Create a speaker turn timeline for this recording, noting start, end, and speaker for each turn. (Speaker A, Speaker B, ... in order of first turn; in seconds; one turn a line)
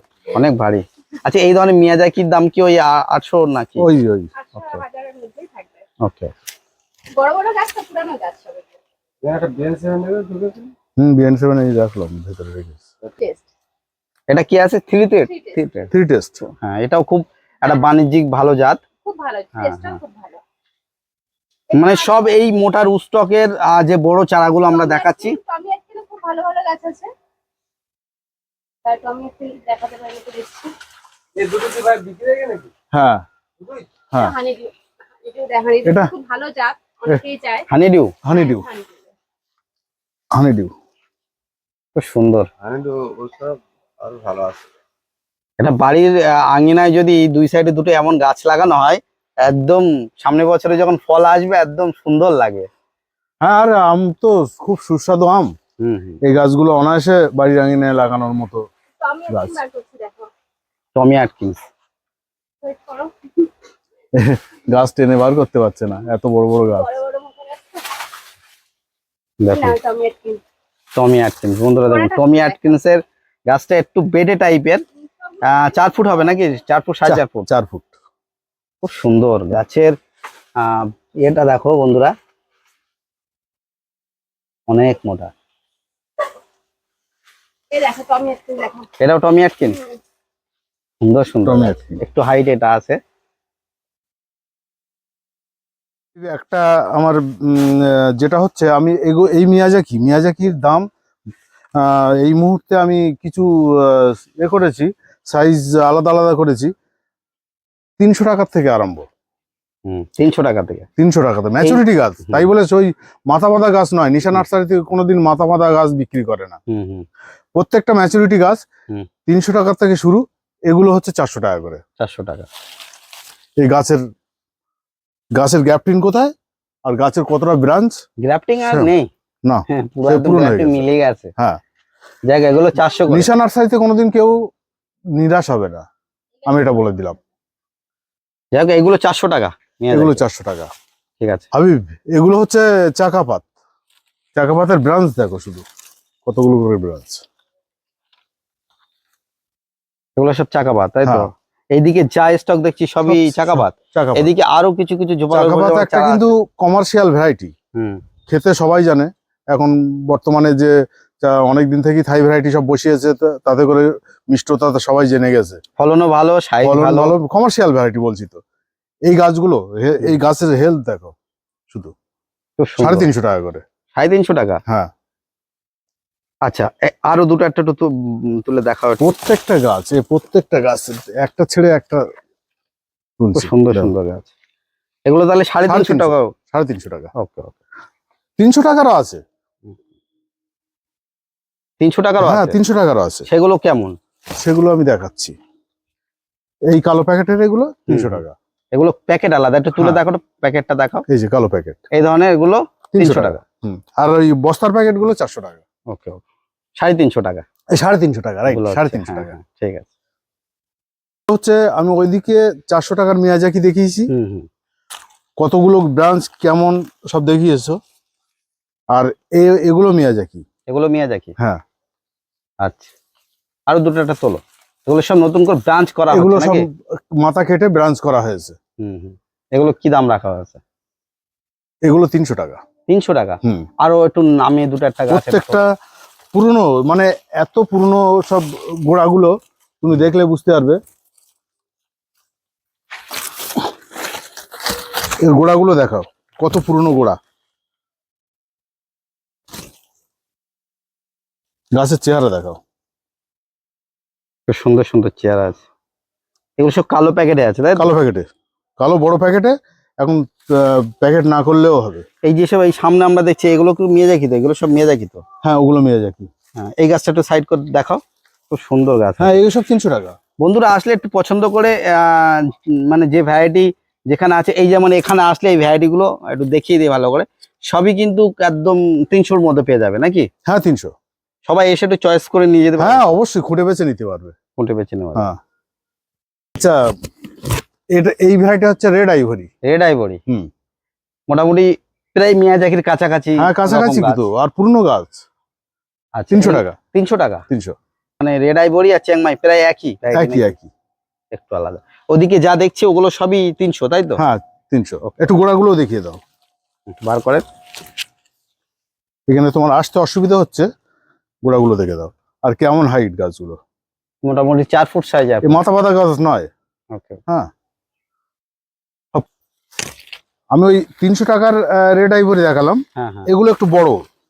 Speaker A: 0.3-3.9
Speaker B: 3.8-4.3
Speaker C: 4.4-5.8
Speaker A: 4.6-4.8
Speaker A: 6.0-6.3
Speaker C: 7.1-8.8
Speaker D: 9.2-10.7
Speaker B: 11.0-12.8
Speaker C: 13.2-13.4
Speaker A: 14.3-15.9
Speaker C: 15.3-15.6
Speaker B: 15.9-16.4
Speaker A: 16.4-18.8
Speaker C: 19.1-20.4
Speaker A: 19.6-20.0
Speaker A: 21.7-25.4
Speaker C: 24.7-27.1
Speaker C: 28.9-30.8
Speaker D: 31.4-32.7
Speaker B: 32.9-33.2
Speaker C: 34.1-37.7
Speaker B: 35.8-36.1
Speaker A: 37.7-38.1
Speaker B: 38.2-38.7
Speaker C: 38.3-39.0
Speaker B: 40.3-40.7
Speaker A: 42.0-42.5
Speaker D: 42.6-44.6
Speaker A: 45.6-52.7
Speaker B: 53.4-55.5
Speaker A: 55.8-56.2
Speaker B: 56.2-58.6
Speaker C: 59.0-60.3
Speaker B: 59.3-59.6
Speaker A: 61.0-61.6
Speaker C: 62.6-63.5
Speaker B: 64.2-67.0
Speaker C: 66.8-67.9
Speaker A: 69.4-69.8
Speaker C: 69.5-70.4
Speaker A: 71.0-74.8
Speaker C: 71.9-72.6
Speaker A: 75.4-77.5
Speaker B: 77.0-77.9
Speaker A: 78.8-80.0
Speaker A: 80.6-82.1
Speaker A: 84.7-85.3
Speaker C: 87.7-88.9
Speaker A: 89.0-89.8
Speaker A: 91.0-93.0
Speaker B: 91.4-92.0
Speaker B: 96.2-100.9
Speaker B: 101.8-106.7
Speaker B: 108.0-109.0
Speaker A: 109.9-110.9
Speaker B: 111.0-116.6
Speaker A: 111.6-112.5
Speaker A: 116.7-117.1
Speaker B: 117.6-118.6
Speaker B: 119.3-121.8
Speaker A: 122.0-122.5
Speaker B: 123.6-124.0
Speaker B: 125.4-126.3
Speaker B: 126.9-128.0
Speaker A: 128.2-129.1
Speaker B: 129.5-131.6
Speaker A: 129.7-131.3
Speaker A: 132.3-133.3
Speaker B: 133.1-134.4
Speaker B: 135.2-135.8
Speaker B: 136.4-137.2
Speaker A: 138.5-140.2
Speaker B: 139.9-140.7
Speaker A: 141.2-141.5
Speaker B: 141.5-143.5
Speaker B: 144.4-145.7
Speaker B: 146.3-147.2
Speaker A: 150.2-156.3
Speaker B: 151.1-151.3
Speaker B: 153.1-154.3
Speaker B: 155.3-157.5
Speaker A: 157.8-158.0
Speaker B: 158.3-165.6
Speaker A: 165.8-167.2
Speaker B: 166.6-168.4
Speaker B: 169.1-171.1
Speaker A: 172.6-173.1
Speaker B: 172.8-173.6
Speaker A: 174.0-174.6
Speaker A: 176.5-179.1
Speaker B: 179.0-182.0
Speaker B: 183.2-183.9
Speaker A: 183.3-184.3
Speaker A: 185.1-186.3
Speaker B: 185.7-187.1
Speaker A: 187.2-187.6
Speaker B: 188.4-189.2
Speaker A: 191.8-192.6
Speaker B: 192.2-193.3
Speaker A: 193.3-194.0
Speaker B: 194.4-195.3
Speaker B: 196.7-198.4
Speaker A: 197.9-198.2
Speaker A: 198.7-201.0
Speaker B: 199.8-200.0
Speaker B: 201.1-201.8
Speaker A: 201.9-203.4
Speaker B: 202.9-205.6
Speaker A: 205.9-206.2
Speaker A: 206.8-207.4
Speaker B: 207.7-209.3
Speaker A: 208.5-209.9
Speaker B: 211.3-214.1
Speaker A: 214.1-214.5
Speaker B: 215.4-217.8
Speaker B: 218.9-220.4
Speaker A: 220.7-221.3
Speaker A: 222.6-222.9
Speaker A: 223.7-226.7
Speaker B: 226.1-228.6
Speaker A: 228.8-230.6
Speaker B: 231.8-232.6
Speaker A: 232.9-235.6
Speaker B: 235.1-235.7
Speaker B: 236.3-240.8
Speaker B: 245.2-247.2
Speaker B: 251.8-252.6
Speaker A: 254.5-255.6
Speaker A: 256.6-257.9
Speaker B: 257.8-258.3
Speaker B: 258.8-262.1
Speaker A: 262.2-265.2
Speaker B: 265.4-266.3
Speaker A: 266.6-269.4
Speaker B: 269.2-270.2
Speaker A: 270.4-280.3
Speaker B: 280.5-280.9
Speaker A: 281.5-283.1
Speaker B: 282.8-284.4
Speaker A: 284.6-285.3
Speaker B: 286.6-286.9
Speaker B: 287.9-289.5
Speaker A: 289.6-290.2
Speaker A: 291.3-294.3
Speaker B: 293.4-295.2
Speaker A: 296.2-297.4
Speaker B: 296.3-296.8
Speaker B: 297.5-297.8
Speaker A: 298.2-300.6
Speaker B: 300.1-300.7
Speaker A: 301.3-304.2
Speaker B: 304.2-306.2
Speaker A: 307.0-307.4
Speaker B: 309.3-310.7
Speaker B: 311.4-313.6
Speaker A: 314.2-315.6
Speaker B: 315.4-316.5
Speaker A: 316.9-317.2
Speaker B: 320.5-324.0
Speaker A: 323.0-323.3